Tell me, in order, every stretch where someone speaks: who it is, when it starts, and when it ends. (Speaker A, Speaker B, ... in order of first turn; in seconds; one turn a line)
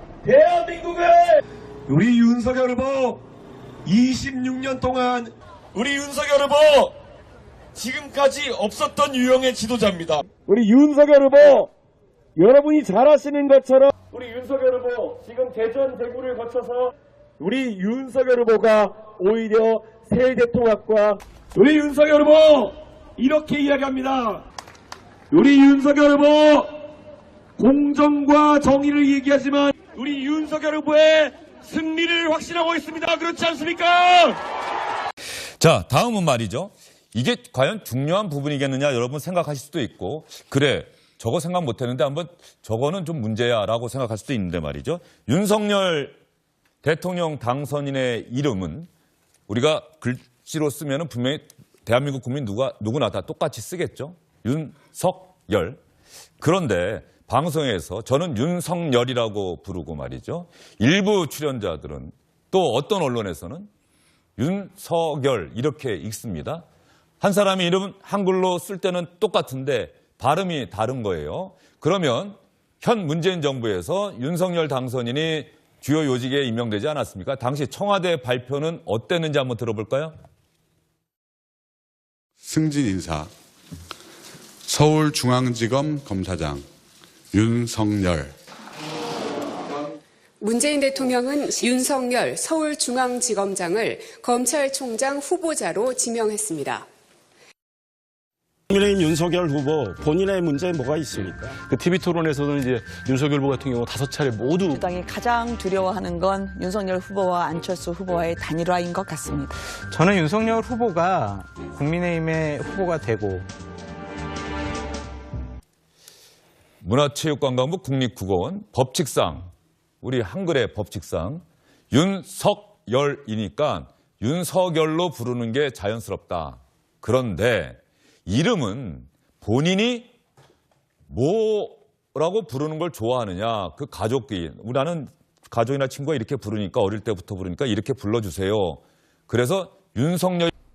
Speaker A: 0.2-3.2
Speaker A: 3.9-7.0
Speaker A: 7.8-11.7
Speaker A: 12.4-24.4
Speaker A: 25.3-26.7
Speaker A: 27.6-34.4
Speaker B: 35.6-46.2
Speaker B: 46.8-48.9
Speaker B: 49.5-55.8
Speaker B: 56.4-63.7
Speaker B: 64.4-66.6
Speaker B: 67.2-80.2
Speaker C: 82.4-83.3
Speaker C: 84.7-86.6
Speaker C: 87.3-88.3
Speaker D: 90.4-96.9
Speaker E: 98.7-101.6
Speaker F: 101.7-104.7
Speaker G: 104.7-109.5
Speaker H: 109.9-113.5
Speaker B: 116.8-119.5
Speaker B: 120.0-130.1
Speaker B: 131.1-140.5